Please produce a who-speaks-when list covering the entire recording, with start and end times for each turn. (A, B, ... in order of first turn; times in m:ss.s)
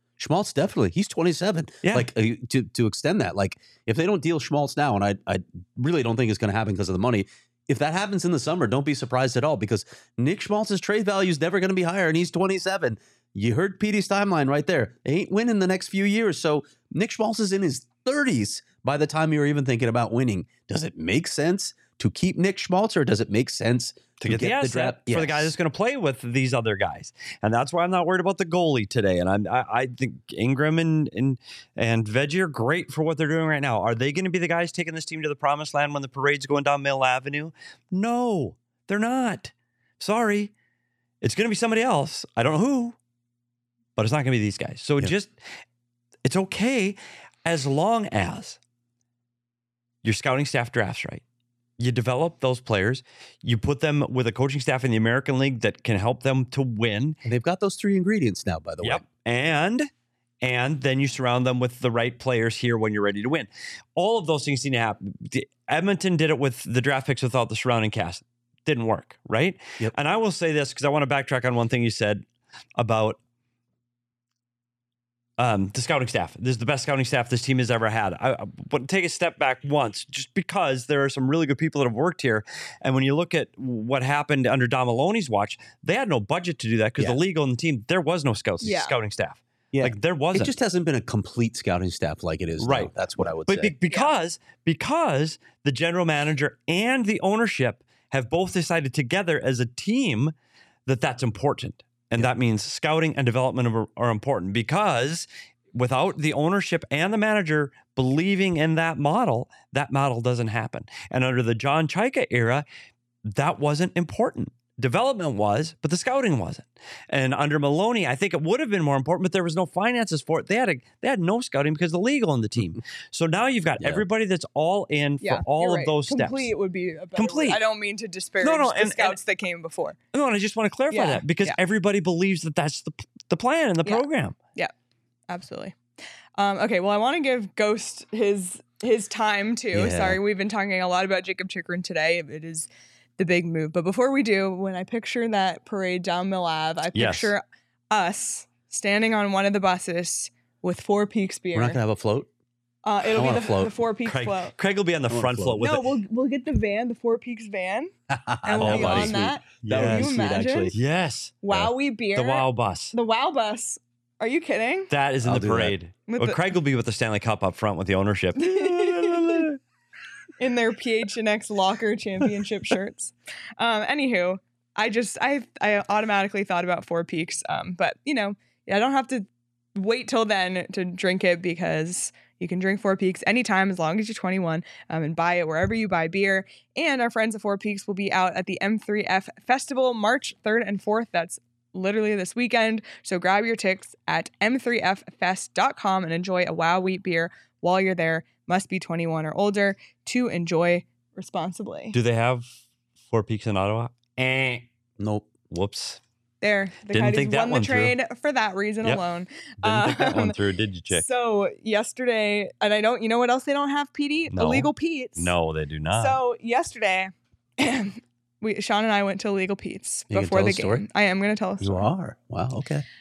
0:00.2-0:25.5 A
0:24.2-0:40.5 B
0:41.2-0:42.9 B
0:44.0-0:45.3 B
0:46.2-0:48.6 B
0:50.0-0:51.2 B
0:51.8-0:57.2 B
0:57.2-0:59.0 A
0:58.8-0:59.9 B
1:00.4-1:12.2 B
1:12.8-1:13.2 B
1:15.4-1:30.5 B
1:28.6-1:28.9 C
1:29.7-1:33.7 A
1:32.6-1:40.3 B
1:40.8-1:52.6 B
1:53.2-2:06.5 B
2:03.8-2:04.0 A
2:05.2-2:10.0 C
2:07.2-2:07.6 B
2:08.4-2:09.2 B
2:10.1-2:14.4 B
2:10.9-2:11.6 C
2:13.8-2:14.7 C
2:15.3-2:15.8 C
2:16.4-2:31.8 C
2:19.7-2:20.2 A
2:26.9-2:27.3 B
2:31.5-2:32.3 A
2:32.8-2:34.5 C
2:33.1-2:33.7 A
2:34.0-2:35.9 B
2:35.1-2:35.6 A
2:35.6-2:37.9 C
2:38.1-2:40.7 A
2:38.4-2:40.7 C
2:38.6-2:40.1 B
2:40.7-2:42.9 B
2:41.4-2:44.9 C
2:44.9-2:49.6 B
2:45.2-2:45.7 A
2:46.1-2:46.4 C
2:48.4-2:49.5 C
2:50.4-3:22.0 C
3:21.9-3:22.4 B
3:23.1-3:24.6 B
3:25.0-3:25.3 A
3:25.5-3:26.0 B
3:26.4-3:30.4 C
3:26.9-3:27.9 B
3:29.6-3:31.0 B
3:30.9-3:35.3 C
3:34.3-3:36.2 B
3:36.0-3:41.9 C
3:40.1-3:40.8 A
3:41.6-3:42.8 A